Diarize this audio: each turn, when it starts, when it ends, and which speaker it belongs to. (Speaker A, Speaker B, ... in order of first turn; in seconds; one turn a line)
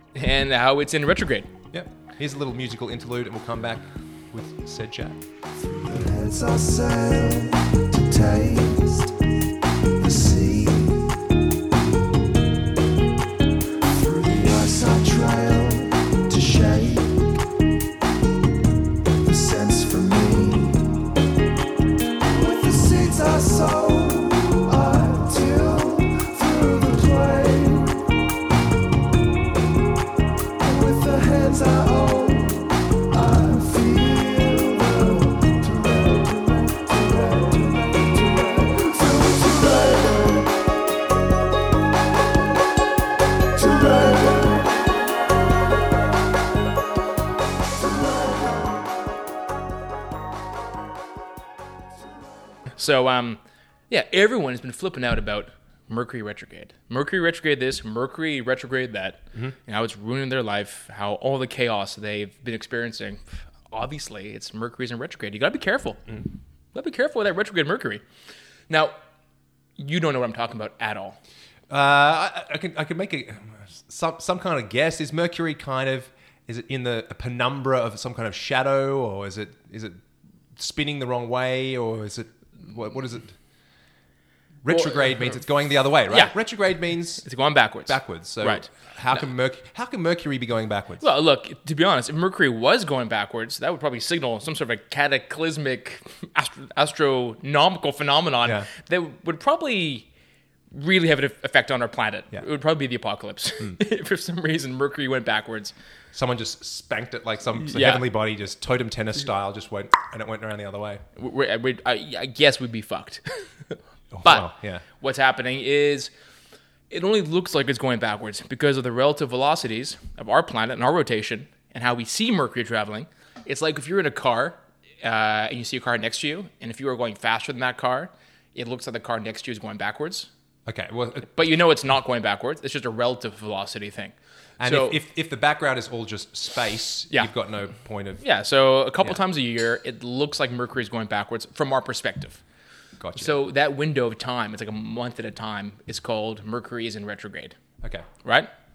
Speaker A: 0.1-1.5
Speaker B: 1.7-5.2
Speaker C: 5.6-9.2
Speaker C: 10.0-11.2
Speaker C: 13.8-17.4
Speaker C: 19.2-21.1
Speaker C: 22.3-28.1
Speaker C: 30.6-40.6
Speaker C: 43.5-44.8
Speaker C: 47.6-48.8
Speaker A: 52.8-66.2
Speaker A: 66.7-68.0
Speaker A: 68.7-69.0
Speaker A: 69.8-71.2
Speaker B: 71.7-80.0
Speaker B: 80.5-83.3
Speaker B: 84.6-87.2
Speaker A: 84.7-85.3
Speaker A: 86.1-86.3
Speaker A: 87.2-88.7
Speaker B: 87.8-91.1
Speaker A: 91.0-100.1
Speaker A: 100.7-105.7
Speaker B: 106.1-111.0
Speaker A: 107.6-108.0
Speaker A: 111.2-116.1
Speaker B: 114.1-114.8
Speaker A: 116.9-130.3
Speaker B: 130.7-131.5
Speaker A: 131.3-135.0
Speaker B: 134.6-138.2
Speaker A: 138.2-142.4
Speaker B: 143.0-143.3
Speaker A: 143.2-147.6
Speaker A: 148.2-148.5